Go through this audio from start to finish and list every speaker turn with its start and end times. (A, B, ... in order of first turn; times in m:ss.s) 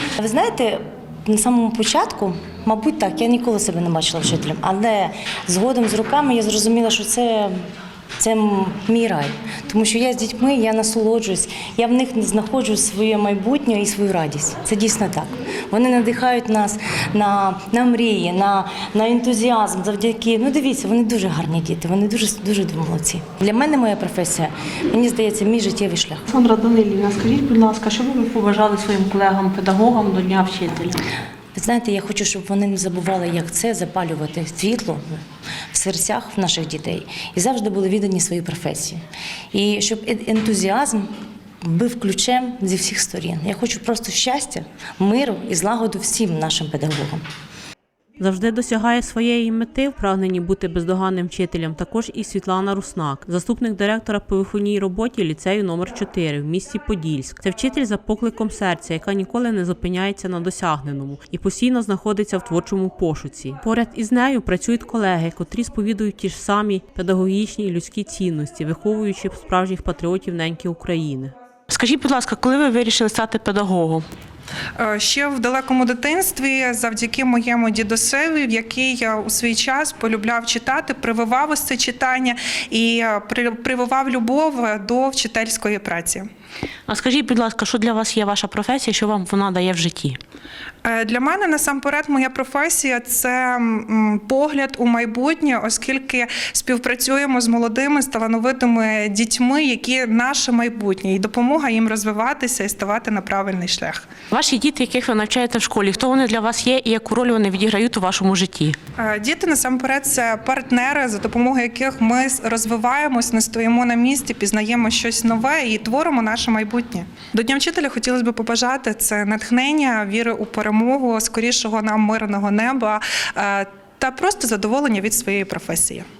0:00.2-0:07.7 A
0:08.2-0:26.3 A
0:26.3-0:31.0 B
0:31.5-0:39.0 A
0:39.5-0:41.1 A
0:41.6-0:47.2 A
0:48.2-1:11.3 C
1:11.7-1:14.1 B
1:14.8-1:26.3 D
1:26.9-1:30.2 B
1:30.8-1:44.0 D
1:44.3-1:48.8 B
1:49.0-2:06.0 D